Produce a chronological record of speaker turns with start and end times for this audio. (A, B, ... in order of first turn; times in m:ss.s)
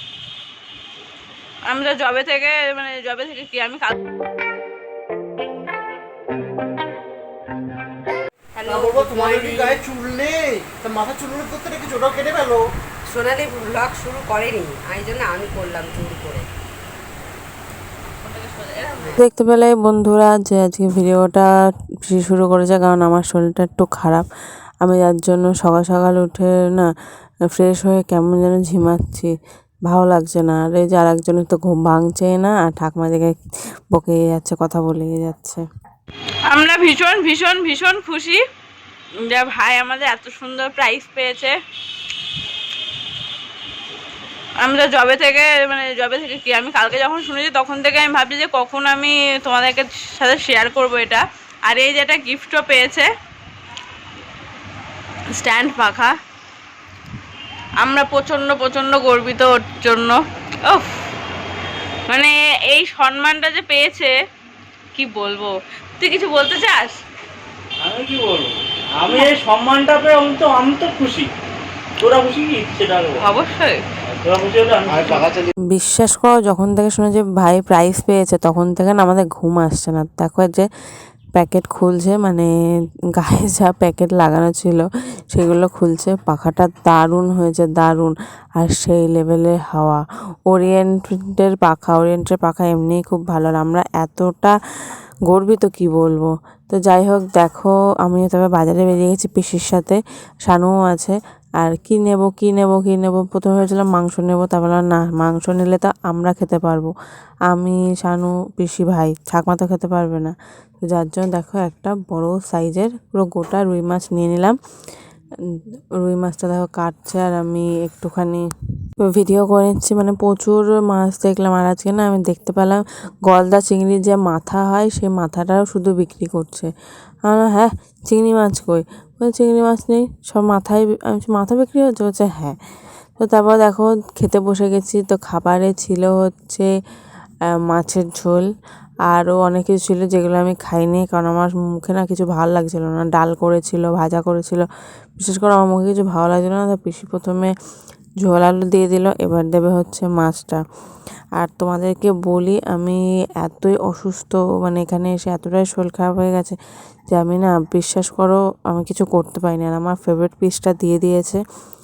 0:01.6-0:03.9 A
0:08.6-0:09.8 B
0:08.7-0:12.6 C
0:13.0-0:16.4 B
0:19.2-0:21.5 D
0:22.1-0:24.2 D
0:24.8-0:26.9 D
0:27.6-0:29.3 D
0:29.9-0:33.4 D
0:33.9-0:35.6 D
0:36.5-0:38.4 A
0:39.3-0:41.5 A
0:44.6-0:53.1 A
0:55.3-0:56.1 A
0:57.8-1:01.0 A
1:02.1-1:04.1 A
1:04.9-1:07.0 A
1:07.8-1:11.3 E
1:12.0-1:13.2 E
1:13.2-1:13.8 A
1:14.1-1:15.4 E
1:15.7-1:20.6 D
1:21.3-1:22.5 D
1:23.2-1:34.5 D
1:35.3-1:46.9 D
1:47.5-1:54.6 D
1:56.0-1:58.4 D
1:59.0-2:06.7 D
2:07.3-2:12.6 D
2:13.2-2:16.7 D
2:17.7-2:18.5 D
2:19.1-2:24.6 D
2:25.2-2:27.5 D
2:28.2-2:30.6 D
2:31.4-2:36.6 D
2:37.1-2:41.4 D